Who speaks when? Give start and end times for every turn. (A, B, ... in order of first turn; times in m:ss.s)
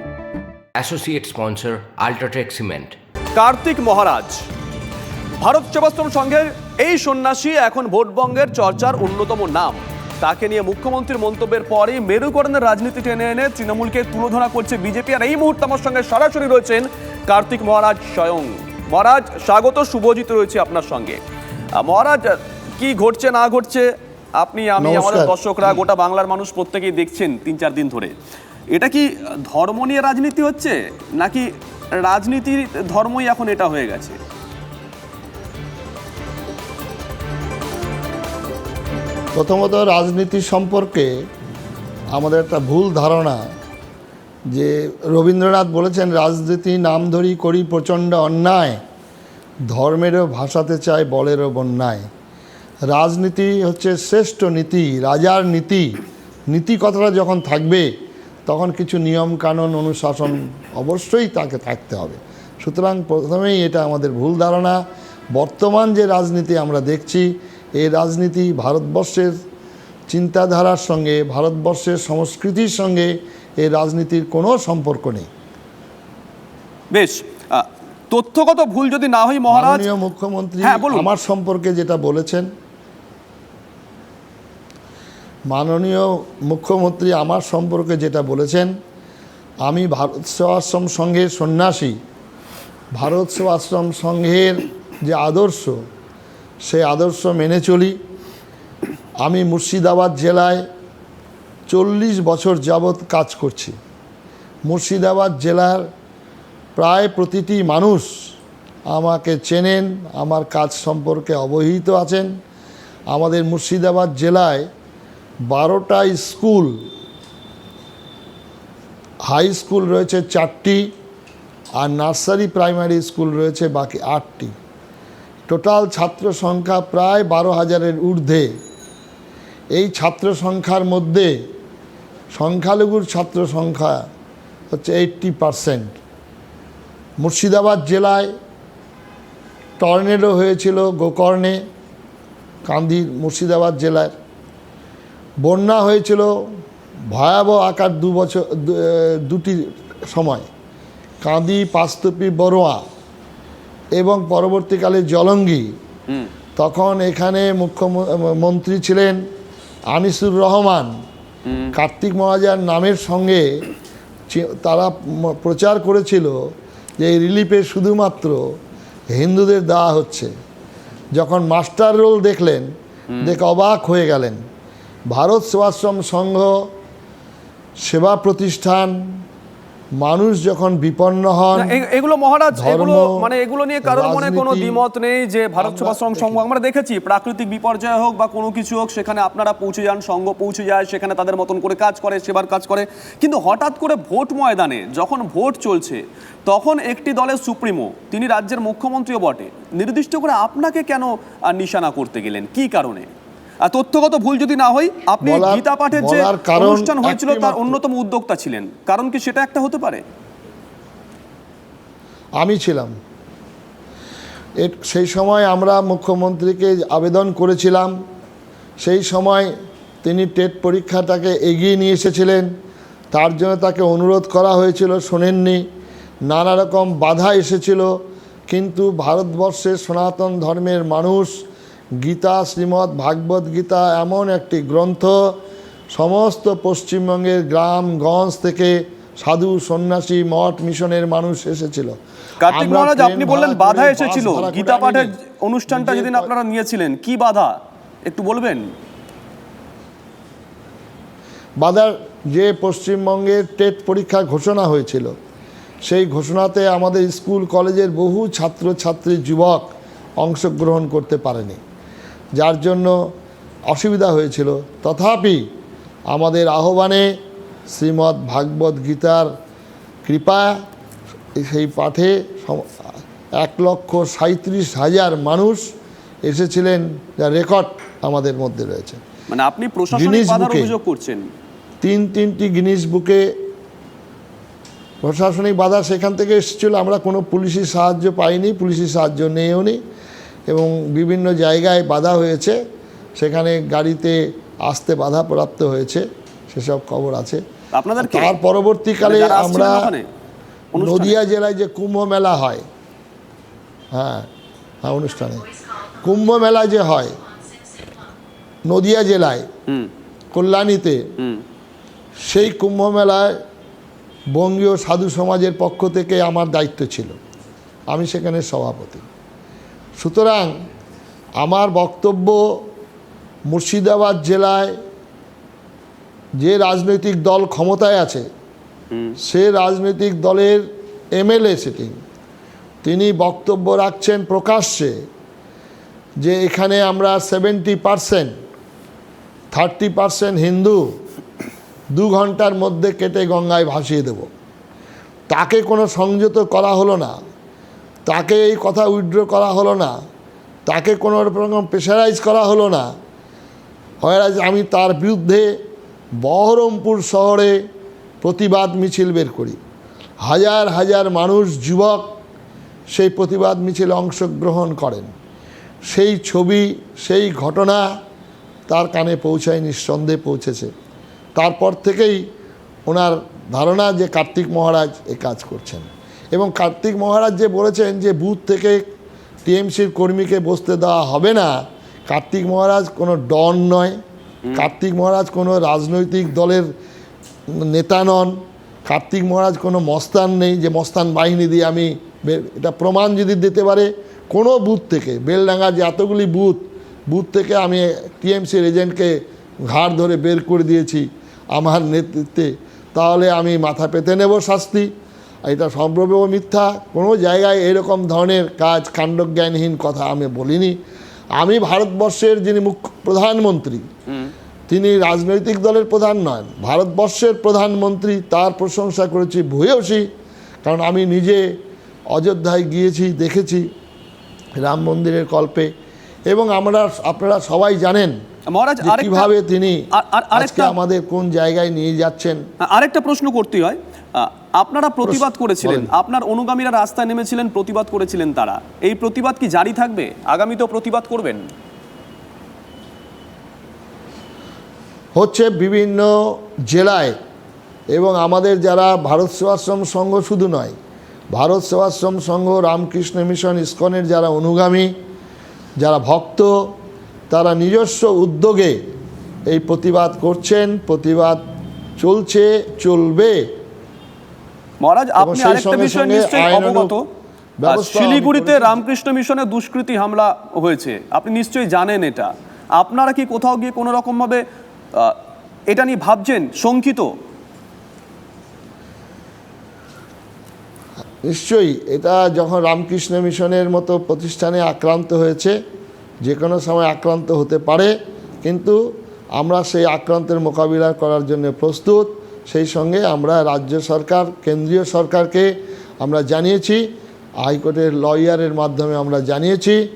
0:00.8-0:03.0 A
0:03.4-0:04.4 B
0:05.4-0:21.2 B
0:21.8-0:28.1 B
0:24.8-0:25.3 C
0:28.7-0:34.2 B
0:39.3-0:41.1 C
0:42.1-0:43.4 C
0:44.5-0:48.8 C
0:49.7-0:52.1 C
0:52.9-0:55.9 C
0:56.5-0:57.9 C
0:58.5-1:04.8 C
1:05.3-1:09.3 C
1:10.1-1:15.3 C
1:16.9-1:19.9 B
1:19.5-1:22.5 C
1:20.6-1:21.1 B
1:25.5-1:28.7 C
1:29.6-1:32.0 C
1:32.9-1:35.8 C
1:36.6-1:38.0 C
1:39.2-1:40.6 C
1:41.7-1:43.8 C
1:44.7-1:45.9 C
1:46.8-1:48.1 C
1:48.9-1:52.3 C
1:53.1-1:54.7 C
1:55.5-1:56.8 C
1:59.3-2:00.8 C
2:01.8-2:04.5 C
2:05.5-2:08.5 C
2:09.7-2:11.3 C
2:12.3-2:14.0 C
2:14.7-2:16.0 C
2:17.2-2:18.3 C
2:19.8-2:21.6 C
2:22.7-2:24.1 C
2:25.4-2:26.3 C
2:27.1-2:30.4 C
2:31.2-2:32.8 C
2:34.0-2:35.7 C
2:36.6-2:39.2 C
2:39.9-2:40.9 C
2:41.5-2:41.7 B
2:41.7-2:43.5 C
2:44.3-2:46.3 C
2:47.0-2:48.4 C
2:49.1-2:50.3 C
2:51.2-2:52.7 C
2:53.1-2:53.4 B
2:53.2-2:54.4 C
2:55.1-2:56.6 C
2:57.8-2:59.0 C
3:00.0-3:01.8 C
3:01.5-3:23.1 B
3:02.5-3:03.1 C
3:03.8-3:04.8 C
3:05.6-3:06.4 C
3:23.6-3:30.0 B
3:25.2-3:27.8 C
3:32.4-3:32.9 C
3:34.6-3:37.9 C
3:38.8-3:39.5 C
3:40.0-3:42.5 C
3:43.1-3:45.6 C
3:46.3-3:47.9 C
3:48.5-3:51.4 C
3:52.0-3:55.1 C
3:55.9-4:02.0 C
4:02.4-4:08.6 B
4:02.5-4:05.2 C
4:05.7-4:06.3 C
4:11.6-4:15.1 C
4:15.9-4:19.7 C
4:20.2-4:21.6 C
4:22.4-4:22.9 C
4:23.7-4:25.4 C
4:26.1-4:27.1 C
4:27.7-4:29.3 C
4:30.0-4:30.5 C
4:31.4-4:32.7 C
4:33.4-4:35.7 C
4:36.2-4:39.0 C
4:39.3-4:41.2 B
4:39.9-4:40.7 C
4:41.8-4:43.3 C
4:45.0-4:49.8 C
4:50.5-4:52.6 C
4:53.2-4:57.4 C
4:57.7-4:58.4 B
4:58.0-4:59.9 C
4:59.0-5:00.1 B
5:00.8-5:01.2 B
5:00.8-5:02.6 C
5:03.9-5:04.3 C
5:04.8-5:07.2 C
5:08.7-5:09.5 C
5:10.3-5:11.0 C
5:12.2-5:13.3 C
5:14.4-5:17.2 C
5:17.9-5:19.1 C
5:20.0-5:20.5 C
5:21.4-5:22.4 C
5:23.5-5:24.7 C
5:26.4-5:28.2 C
5:28.9-5:29.2 B
5:29.2-5:30.6 C
5:31.2-5:32.0 C
5:32.8-5:34.9 C
5:36.2-5:38.3 C
5:39.5-5:40.8 C
5:41.9-5:44.3 C
5:45.3-5:47.1 C
5:48.1-5:49.9 C
5:50.7-5:52.9 C
5:54.0-5:55.5 C
5:56.2-5:57.6 C
5:58.2-5:59.6 C
6:00.2-6:02.1 C
6:02.9-6:05.1 C
6:05.9-6:07.9 C
6:08.7-6:10.7 C
6:11.4-6:12.2 C
6:12.9-6:18.9 C
6:19.5-6:21.5 C
6:22.1-6:24.0 C
6:24.6-6:26.7 C
6:27.5-6:44.9 C
6:45.4-6:50.8 C
6:51.4-6:53.8 C
6:54.7-7:00.1 C
7:00.6-7:01.4 C
7:02.1-7:03.7 C
7:04.6-7:05.7 C
7:06.3-7:08.2 C
7:08.5-7:09.3 B
7:08.8-7:09.8 C
7:09.9-7:10.8 B
7:10.3-7:12.4 C
7:12.6-7:21.4 B
7:15.0-7:15.9 C
7:25.2-7:27.2 C
7:27.9-7:30.8 C
7:31.3-7:34.9 C
7:35.8-7:36.6 C
7:37.3-7:38.8 C
7:39.5-7:41.4 C
7:42.0-7:43.5 C
7:44.8-7:47.0 B
7:45.2-7:47.0 C
7:47.6-7:48.8 C
7:47.6-7:54.4 B
7:55.7-7:57.1 B
8:01.2-8:05.6 C
8:06.2-8:08.8 C
8:09.4-8:16.8 C
8:17.4-8:19.8 C